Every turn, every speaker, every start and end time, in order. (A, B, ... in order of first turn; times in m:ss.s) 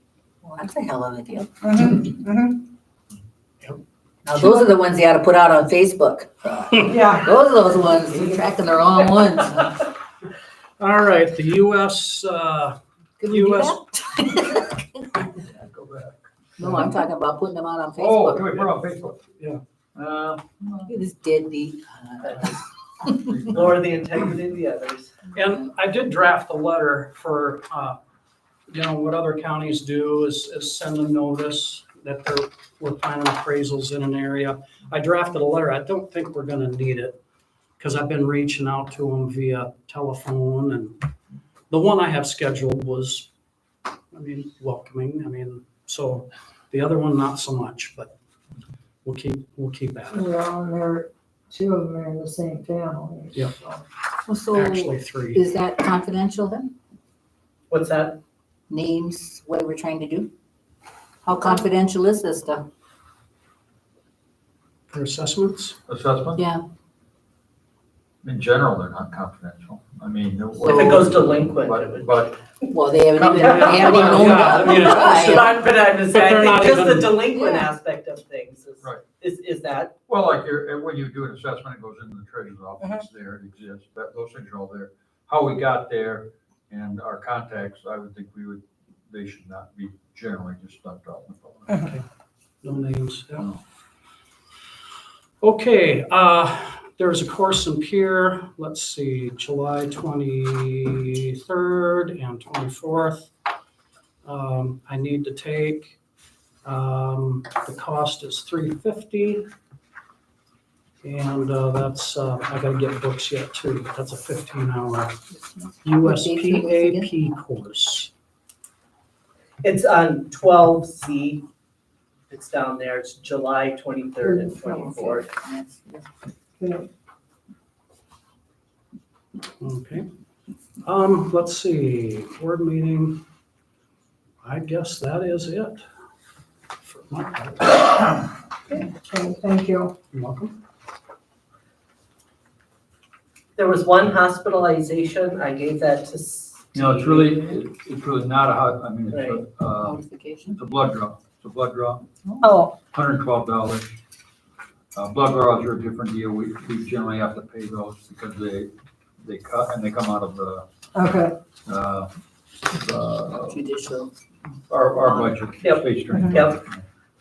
0:00.4-0:02.1 A
0:01.6-0:02.6 B
0:04.2-0:09.8 A
0:06.8-0:07.4 B
0:10.8-0:12.8 C
0:13.2-0:15.1 A
0:13.3-0:13.8 C
0:15.4-0:16.2 D
0:16.6-0:18.8 A
0:18.0-0:19.2 D
0:19.9-0:20.9 D
0:20.9-0:23.5 A
0:22.2-0:22.6 E
0:23.2-0:24.1 D
0:23.4-0:25.3 E
0:25.3-0:28.0 C
0:28.7-0:37.2 C
0:37.8-0:40.9 C
0:41.7-0:43.3 C
0:44.1-0:48.1 C
0:49.0-0:50.3 C
0:50.1-0:53.8 B
0:54.2-0:56.7 A
0:54.5-0:55.4 C
0:57.7-0:58.2 E
0:58.7-1:00.3 A
1:01.2-1:02.6 A
1:04.9-1:05.8 C
1:05.9-1:06.4 D
1:06.3-1:06.6 A
1:08.2-1:12.4 D
1:10.6-1:11.1 A
1:10.6-1:12.7 E
1:12.7-1:15.5 A
1:13.2-1:17.2 C
1:13.2-1:14.0 D
1:13.4-1:19.9 E
1:20.1-1:31.8 D
1:31.7-1:32.0 B
1:32.6-1:33.5 C
1:35.4-1:43.3 C
1:44.2-1:46.0 C
1:46.6-1:49.4 C
1:51.0-1:55.1 C
1:55.3-1:57.1 A
1:55.8-1:58.1 C
1:59.6-2:01.4 E
2:02.3-2:05.3 E
2:04.4-2:06.1 A
2:06.6-2:06.9 B
2:09.6-2:10.0 C
2:10.8-2:13.2 C
2:14.4-2:15.8 C
2:16.8-2:18.1 C
2:18.7-2:19.9 B
2:20.1-2:20.6 C
2:23.6-2:27.5 E
2:26.7-2:32.1 D
2:29.1-2:29.4 E
2:29.7-2:30.6 A
2:32.2-2:32.6 A
2:32.4-2:32.7 B
2:32.9-2:33.9 D
2:34.9-2:40.6 D
2:40.9-2:41.4 B
2:41.6-2:42.1 D
2:42.7-2:43.6 D
2:43.3-2:44.1 A
2:44.7-2:46.8 D
2:45.0-2:45.4 A
2:45.6-2:46.6 E
2:46.1-2:46.4 B